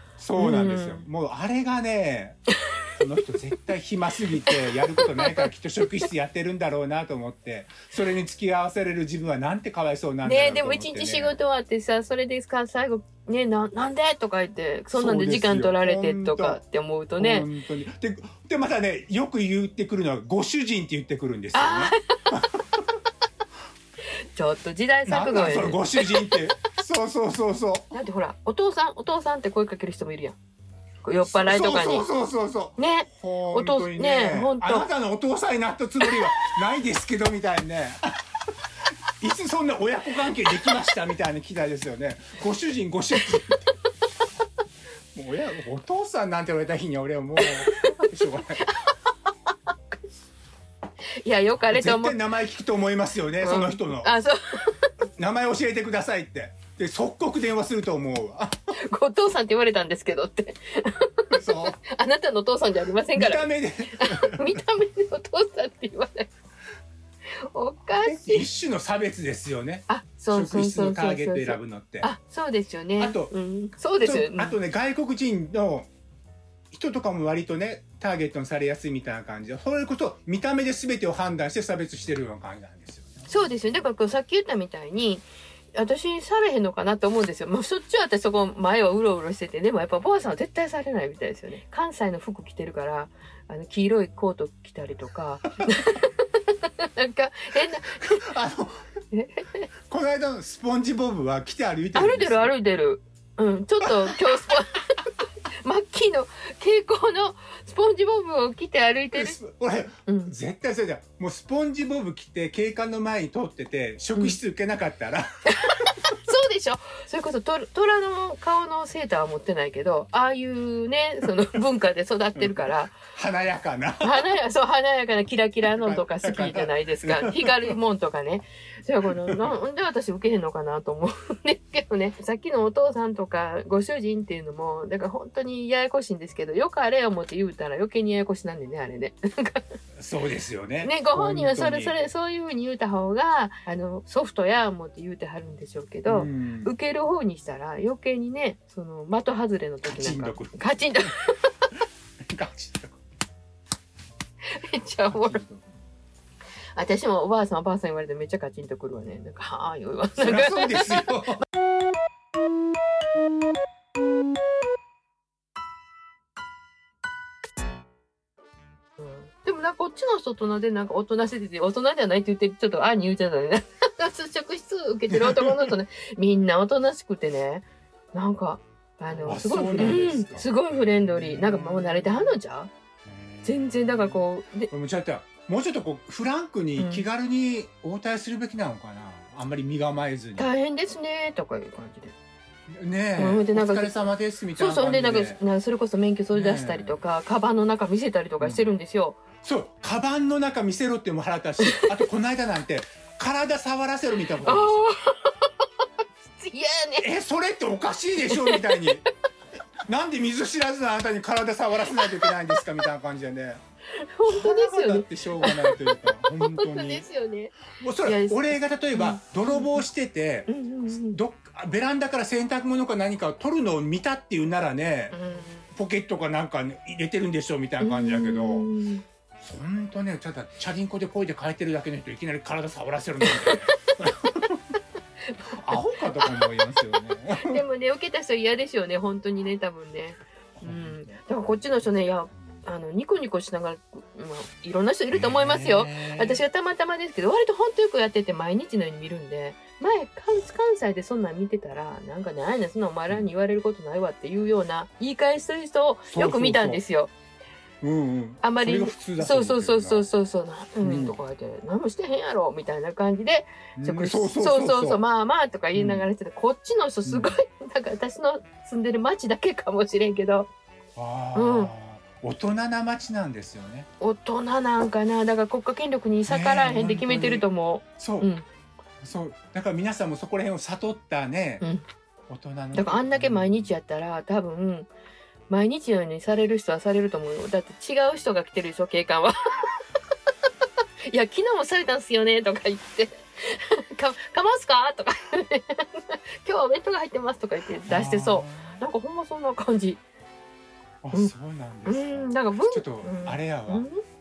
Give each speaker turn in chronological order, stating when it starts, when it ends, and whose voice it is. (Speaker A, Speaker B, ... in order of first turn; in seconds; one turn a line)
Speaker A: 0.2-2.4
Speaker B: 0.3-1.1
Speaker A: 3.0-11.4
Speaker B: 4.5-5.5
Speaker B: 10.2-17.5
Speaker A: 14.9-16.6
Speaker A: 17.2-22.6
Speaker B: 21.5-22.1
Speaker B: 24.3-26.4
Speaker A: 25.1-27.9
Speaker B: 27.9-30.4
Speaker B: 31.0-32.1
Speaker A: 31.2-38.0
Speaker B: 32.8-34.9
Speaker A: 39.2-43.6
Speaker A: 45.1-48.6
Speaker B: 47.4-49.1
Speaker B: 51.2-52.2
Speaker A: 51.7-54.1
Speaker B: 53.4-54.9
Speaker A: 55.2-58.7
Speaker B: 58.7-66.3
Speaker A: 61.3-61.8
Speaker A: 63.1-64.6
Speaker B: 67.5-68.5
Speaker A: 68.0-72.1
Speaker B: 69.9-74.6
Speaker A: 73.0-73.3
Speaker A: 74.0-75.9
Speaker A: 76.7-83.1
Speaker B: 83.3-98.3
Speaker A: 97.9-98.8
Speaker B: 99.1-99.7
Speaker A: 99.9-102.5
Speaker B: 101.9-109.4
Speaker A: 103.8-104.5
Speaker A: 109.1-115.3
Speaker B: 110.0-110.3
Speaker B: 115.5-123.0
Speaker A: 122.3-124.3
Speaker B: 124.0-139.7
Speaker A: 125.7-127.8
Speaker A: 129.2-129.5
Speaker A: 139.9-141.9
Speaker B: 140.8-151.5
Speaker A: 146.1-146.7
Speaker A: 149.8-151.1
Speaker A: 152.3-153.0
Speaker B: 154.4-155.4
Speaker A: 155.1-155.7
Speaker B: 156.8-161.2
Speaker A: 160.2-161.4
Speaker B: 169.0-182.7
Speaker A: 175.1-175.7
Speaker A: 179.2-182.3
Speaker A: 183.1-190.5
Speaker B: 183.4-184.7
Speaker B: 186.8-187.1
Speaker B: 190.4-192.1
Speaker A: 192.7-195.4
Speaker B: 193.2-199.2
Speaker A: 196.3-197.0
Speaker A: 198.4-198.7
Speaker A: 199.4-204.8
Speaker B: 201.6-202.0
Speaker B: 204.4-205.7
Speaker B: 206.2-207.1
Speaker A: 207.0-209.0
Speaker B: 208.2-209.0
Speaker A: 209.9-213.6
Speaker B: 211.9-212.3
Speaker B: 213.9-219.8
Speaker A: 214.3-217.1
Speaker A: 217.8-225.2
Speaker B: 220.5-221.2
Speaker B: 225.1-225.7
Speaker A: 225.7-228.7
Speaker B: 227.8-229.0
Speaker A: 229.4-234.6
Speaker B: 233.2-233.6
Speaker B: 235.3-236.4
Speaker A: 235.5-237.6
Speaker B: 237.4-257.1
Speaker A: 240.6-242.7
Speaker A: 245.1-246.4
Speaker A: 256.1-256.8
Speaker A: 257.8-260.1
Speaker B: 258.4-270.5
Speaker A: 260.8-261.2
Speaker A: 263.8-265.0
Speaker A: 265.7-266.1
Speaker A: 267.0-267.3
Speaker A: 270.9-273.9
Speaker B: 271.3-271.7
Speaker B: 274.0-278.4
Speaker A: 276.3-277.4
Speaker A: 278.0-278.3
Speaker A: 279.0-281.6
Speaker A: 282.3-283.7
Speaker B: 282.7-284.9
Speaker B: 285.5-289.7
Speaker B: 291.1-300.0
Speaker A: 297.9-298.8
Speaker A: 301.0-303.9
Speaker B: 301.9-304.0